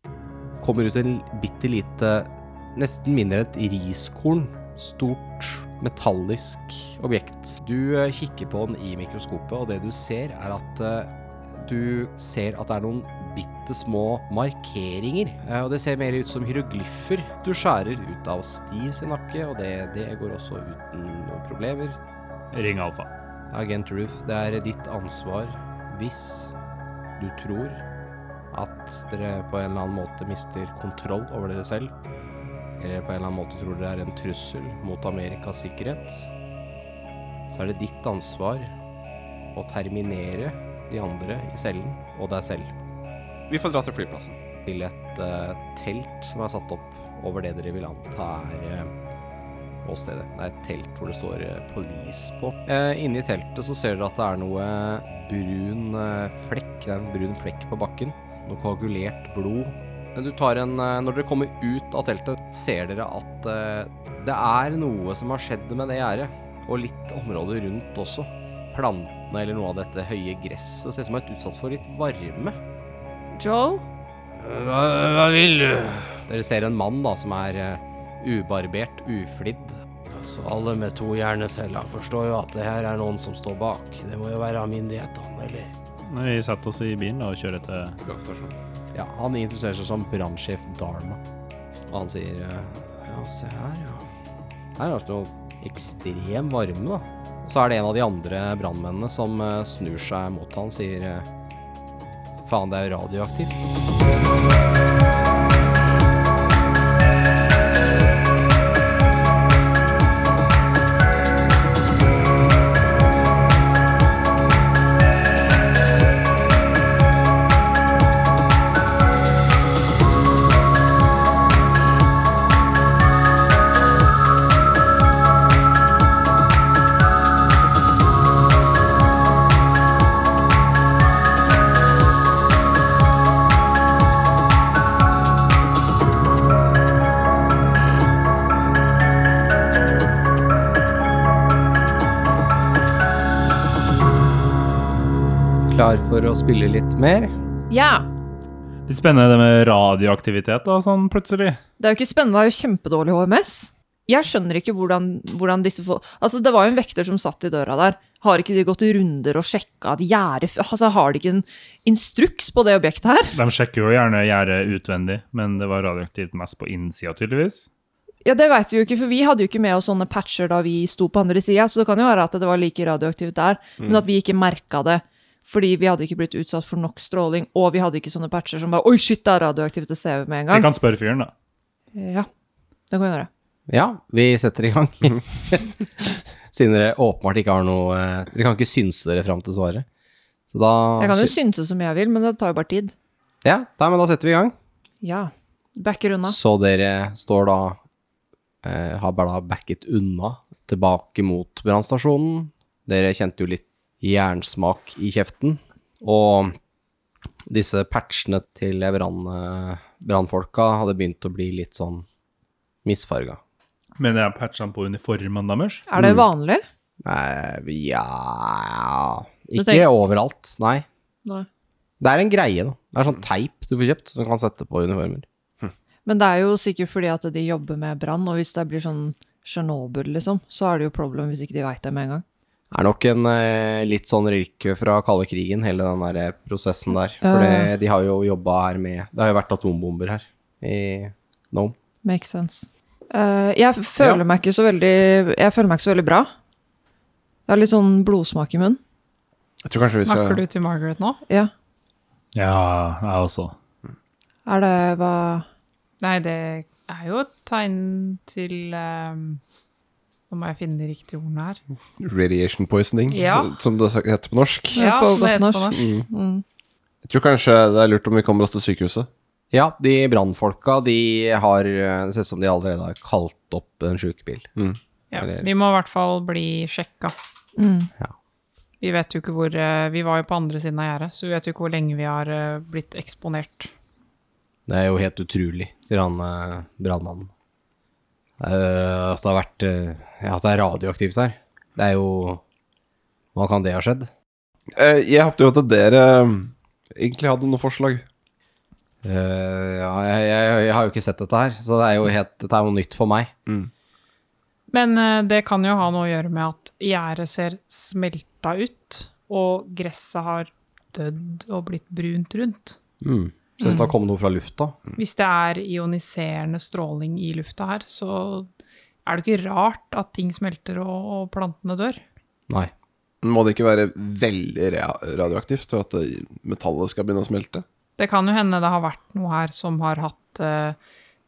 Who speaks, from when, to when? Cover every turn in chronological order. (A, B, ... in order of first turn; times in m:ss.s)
0:00.6-0:22.0 A
0:22.5-0:23.1 B
0:23.5-0:26.5 A
0:27.2-0:27.8 A
0:28.5-0:31.9 A
0:32.8-0:36.3 A
0:37.5-0:38.7 A
0:39.5-0:42.7 A
0:43.5-0:44.4 C
0:44.6-0:48.9 A
0:49.8-1:12.6 A
1:13.4-1:13.8 D
1:14.4-1:25.7 A
1:26.1-1:28.0 B
1:28.0-1:28.5 C
1:28.9-1:31.2 A
1:31.9-1:34.1 A
1:34.8-1:41.3 A
1:42.4-1:43.6 A
2:25.7-2:27.3 A
2:27.7-2:28.1 D
2:28.9-2:31.6 B
2:31.8-2:43.4 D
2:43.3-2:47.7 B
2:48.2-3:00.7 D
3:00.5-3:01.3 B
3:01.9-3:02.3 D
3:02.9-3:03.3 D
3:03.7-3:05.7 A
3:06.5-3:09.8 A
3:10.5-3:11.3 A
3:11.0-3:12.9 D
3:13.4-3:14.5 A
3:15.0-3:16.4 D
3:16.2-3:17.8 A
3:18.6-3:26.6 A
3:27.5-3:32.0 A
3:32.8-3:33.4 A
3:34.0-3:35.8 B
3:35.9-3:36.6 D
3:36.0-3:36.2 A
3:37.0-3:40.8 A
3:39.6-3:39.9 D
3:42.0-3:45.2 A
3:46.0-3:52.2 D
3:52.7-4:01.8 A
3:57.2-3:57.7 D
4:02.0-4:06.3 D
4:07.5-4:08.8 D
4:09.6-4:10.4 C
4:09.8-4:11.2 E
4:12.3-4:13.5 B
4:14.4-4:15.4 D
4:16.0-4:19.4 E
4:20.3-4:21.6 E
4:22.0-4:24.9 C
4:23.1-4:23.5 E
4:24.7-4:26.4 D
4:24.8-4:25.8 E
4:25.8-4:26.0 C
4:27.0-4:29.1 C
4:29.5-4:34.5 A
4:35.1-4:37.1 E
4:35.2-4:35.5 A
4:37.6-4:37.9 D
4:38.8-4:43.7 E
4:44.7-4:47.3 A
4:48.4-4:52.4 A
4:53.3-4:54.1 A
4:54.7-4:58.0 C
4:59.0-5:03.3 A
5:04.7-5:12.8 E
5:13.0-5:14.8 A
5:13.6-5:13.9 D
5:15.0-5:18.5 E
5:19.0-5:22.0 E
5:23.2-5:27.6 C
5:28.0-5:30.8 E